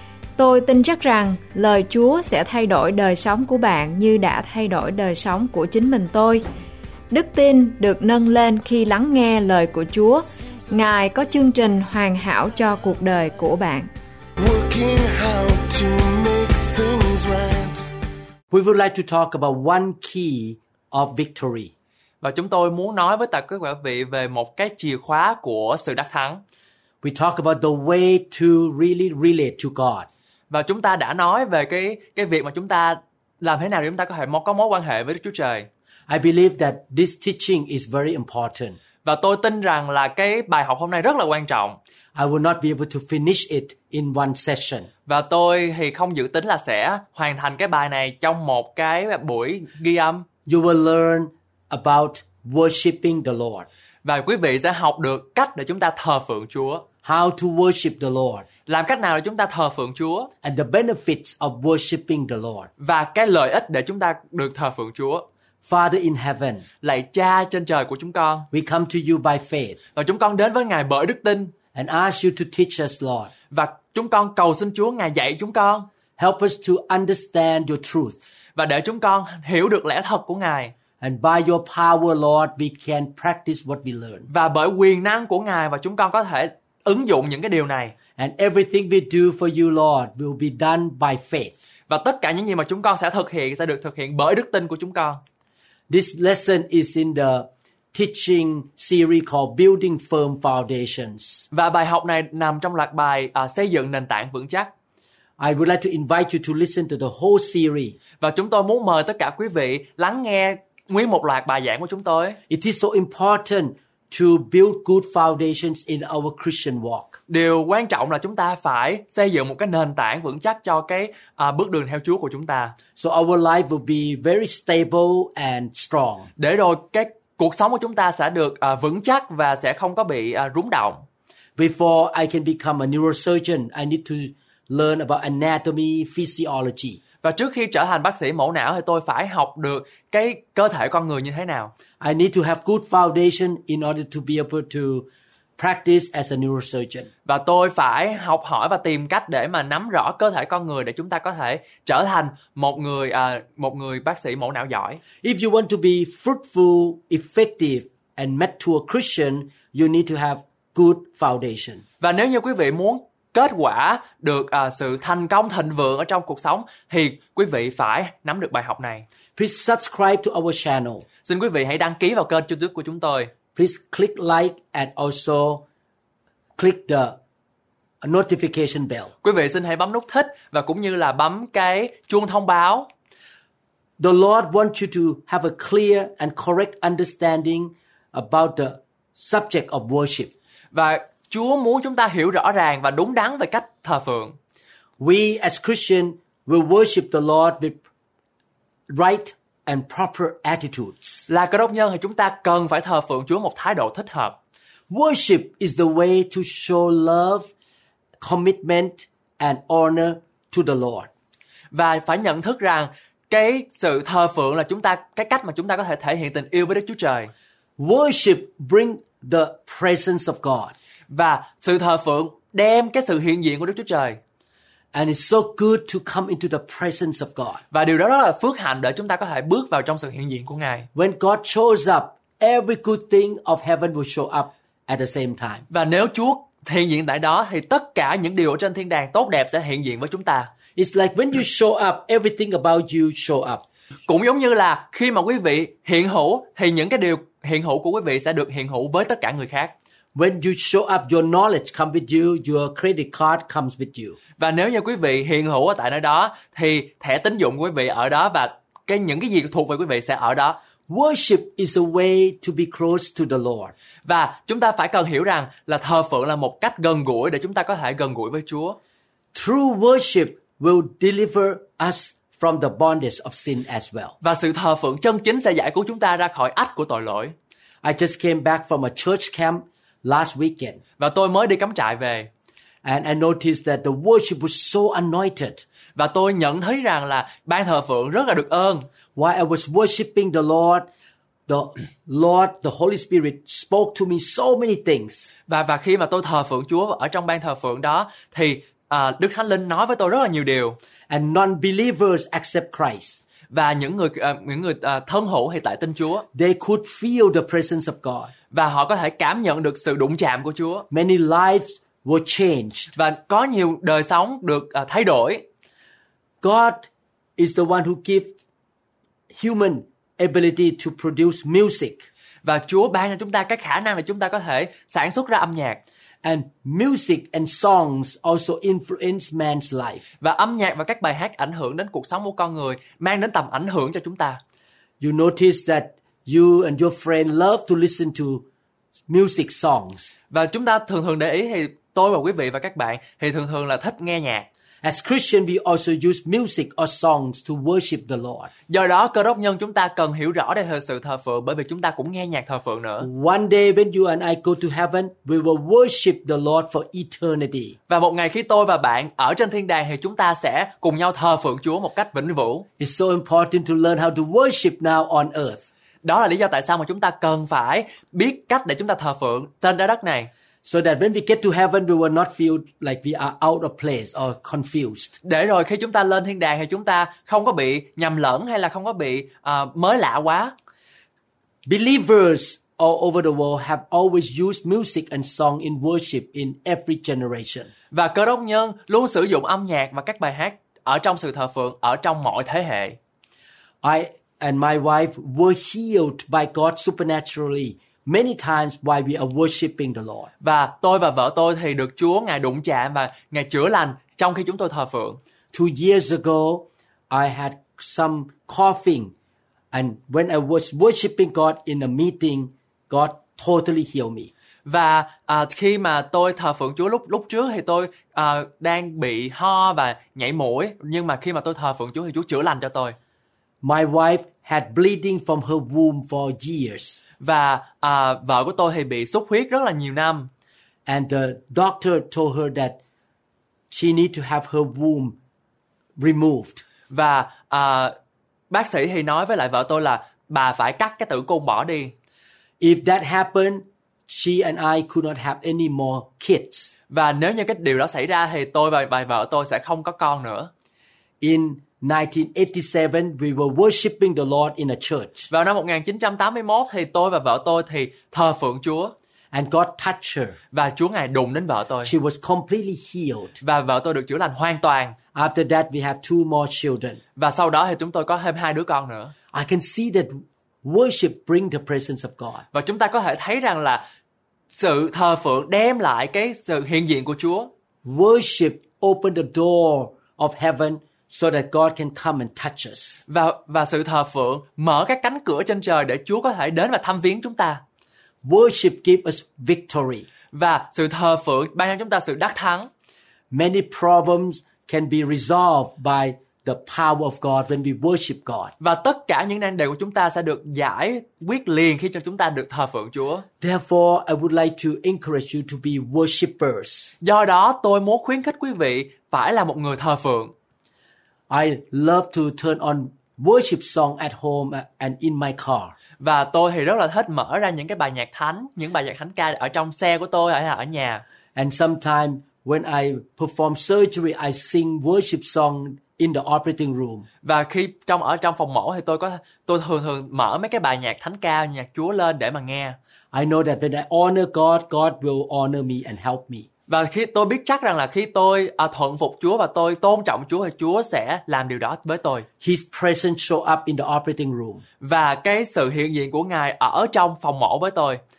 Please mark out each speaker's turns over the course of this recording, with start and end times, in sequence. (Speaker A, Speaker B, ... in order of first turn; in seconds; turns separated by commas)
Speaker A: 0.4-6.4, Speaker A: 7.1-13.9, Speaker B: 14.4-17.9, Speaker C: 18.5-21.7, Speaker D: 22.2-26.4, Speaker C: 27.0-30.1, Speaker D: 30.5-35.7, Speaker C: 36.1-38.8, Speaker D: 39.0-41.8, Speaker C: 42.1-44.9, Speaker D: 45.1-50.3, Speaker C: 50.5-53.7, Speaker D: 54.0-56.9, Speaker C: 57.0-58.5, Speaker D: 58.7-60.3, Speaker C: 60.4-62.7, Speaker D: 62.8-65.3, Speaker C: 65.7-66.7, Speaker D: 66.8-68.5, Speaker C: 68.5-69.8, Speaker D: 70.0-71.5, Speaker C: 71.7-73.3, Speaker D: 73.5-75.9, Speaker C: 76.2-78.2, Speaker D: 78.6-80.7, Speaker C: 81.0-84.3, Speaker D: 84.3-88.0, Speaker C: 88.2-91.5, Speaker D: 91.9-95.2, Speaker C: 95.9-101.5, Speaker D: 101.5-104.7, Speaker C: 105.4-108.0, Speaker D: 108.2-112.4, Speaker C: 112.5-117.2, Speaker D: 117.3-122.8, Speaker C: 123.0-126.3, Speaker D: 126.4-131.0, Speaker C: 131.6-137.0, Speaker D: 137.2-141.7, Speaker C: 142.0-147.1, Speaker D: 147.3-155.0, Speaker C: 155.2-161.8, Speaker D: 162.0-169.1, Speaker C: 169.4-171.1, Speaker D: 171.2-173.3, Speaker C: 173.6-175.7, Speaker C: 176.6-177.2, Speaker C: 178.0-179.1, Speaker D: 179.2-182.9, Speaker C: 184.0-190.3, Speaker D: 190.7-194.4, Speaker C: 195.0-197.8, Speaker C: 198.9-201.3, Speaker D: 201.3-204.4, Speaker C: 204.9-207.5, Speaker C: 208.2-211.1, Speaker D: 211.7-217.3, Speaker C: 217.8-220.8, Speaker D: 221.1-224.2, Speaker C: 224.9-227.6, Speaker D: 227.7-230.9, Speaker C: 230.9-235.7, Speaker D: 235.7-240.5, Speaker C: 240.8-243.7, Speaker D: 244.1-249.7, Speaker C: 250.2-254.2, Speaker D: 254.4-260.6, Speaker C: 260.9-263.7, Speaker D: 264.1-268.8, Speaker C: 269.3-274.2, Speaker D: 274.2-277.4, Speaker C: 277.8-280.8, Speaker D: 281.0-282.3, Speaker C: 282.8-285.6, Speaker D: 286.0-288.9, Speaker C: 289.1-290.9, Speaker C: 291.5-295.3, Speaker D: 295.5-300.8, Speaker C: 301.1-303.2, Speaker D: 303.5-306.3, Speaker C: 306.3-308.3, Speaker D: 308.5-310.9, Speaker C: 310.9-312.9, Speaker D: 312.9-315.4, Speaker C: 316.4-318.3, Speaker C: 319.3-322.1, Speaker D: 322.4-325.8, Speaker C: 326.2-330.1, Speaker D: 330.2-334.4, Speaker C: 335.0-338.4, Speaker C: 339.1-340.1, Speaker D: 340.3-344.5, Speaker C: 344.8-348.5, Speaker D: 348.7-353.1, Speaker C: 353.0-357.8, Speaker D: 357.9-362.7, Speaker C: 362.8-365.7, Speaker D: 366.0-370.3, Speaker C: 370.6-375.2, Speaker D: 375.2-380.5, Speaker C: 381.7-387.7, Speaker D: 387.9-393.0, Speaker C: 393.8-400.3, Speaker D: 400.4-405.2, Speaker C: 405.5-409.1, Speaker C: 409.7-414.3, Speaker D: 414.7-423.0, Speaker C: 423.6-427.0, Speaker D: 427.2-430.3, Speaker C: 430.9-432.8, Speaker C: 433.7-435.2, Speaker C: 436.0-436.6, Speaker D: 436.9-437.9, Speaker D: 438.5-441.9, Speaker C: 442.6-446.7, Speaker D: 446.9-450.5, Speaker C: 451.2-455.3, Speaker D: 455.3-458.9, Speaker C: 459.3-460.4, Speaker D: 460.5-461.9, Speaker C: 461.8-463.4, Speaker D: 463.4-465.0, Speaker C: 465.1-467.0, Speaker D: 467.2-469.1, Speaker C: 469.3-472.4, Speaker D: 472.5-473.8, Speaker D: 474.5-477.5, Speaker C: 477.8-483.0, Speaker D: 483.1-487.6, Speaker C: 488.2-490.1, Speaker D: 490.3-492.7, Speaker C: 493.3-498.5, Speaker D: 498.6-503.3, Speaker C: 503.4-506.9, Speaker D: 507.0-510.3, Speaker C: 511.3-515.8, Speaker D: 516.0-521.0, Speaker C: 521.4-527.1, Speaker D: 527.2-532.8, Speaker C: 533.1-536.5, Speaker D: 536.7-542.3, Speaker C: 542.4-544.6, Speaker D: 544.8-548.0